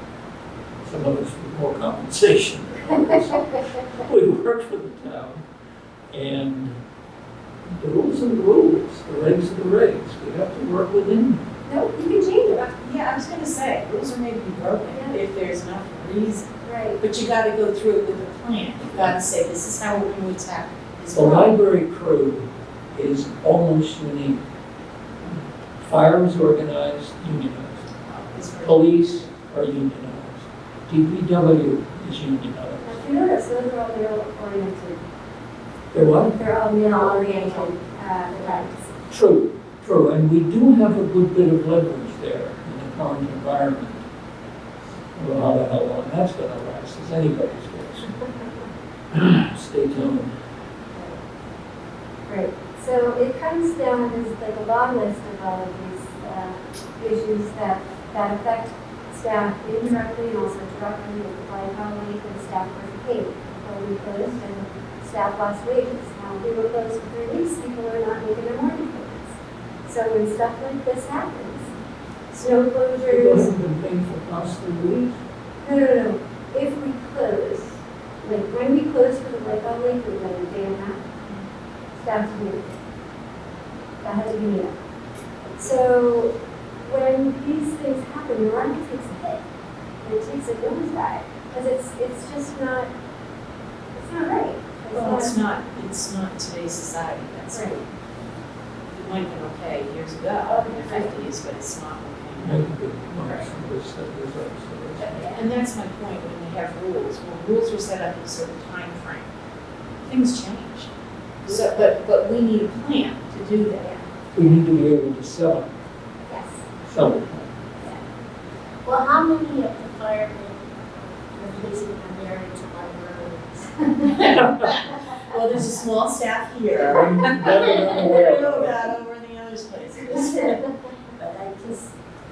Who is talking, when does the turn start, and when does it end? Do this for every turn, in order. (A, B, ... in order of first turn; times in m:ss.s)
0:00.8-0:05.4 A
0:06.1-0:06.8 A
0:07.8-0:11.4 A
0:11.6-0:12.8 B
0:12.8-0:16.5 C
0:14.9-0:15.2 B
0:16.6-0:17.0 B
0:17.0-0:21.5 C
0:21.1-0:24.4 A
0:25.2-0:27.8 A
0:28.0-0:28.9 C
0:28.6-0:32.9 A
0:32.8-0:35.0 B
0:35.9-0:36.4 A
0:36.3-0:38.9 B
0:36.8-0:38.7 D
0:39.1-0:44.0 A
0:45.2-0:48.1 A
0:49.1-0:50.3 A
0:52.3-1:09.3 B
1:09.9-1:11.7 B
1:12.3-1:13.5 B
1:13.0-1:15.2 A
1:15.6-1:21.0 B
1:22.0-1:22.7 B
1:24.0-1:24.7 B
1:25.5-1:29.4 B
1:30.0-1:32.9 B
1:33.9-1:35.4 B
1:34.9-1:37.9 C
1:38.9-1:43.5 C
1:40.5-1:41.2 B
1:42.4-1:45.2 A
1:45.1-1:45.4 B
1:45.1-1:49.3 C
1:50.0-1:50.9 C
1:51.4-1:54.0 C
1:54.3-1:55.7 A
1:56.3-1:56.6 B
1:56.8-1:57.5 A
1:58.8-2:03.9 D
2:04.2-2:10.6 C
2:04.2-2:04.8 A
2:06.8-2:08.8 A
2:11.2-2:11.9 D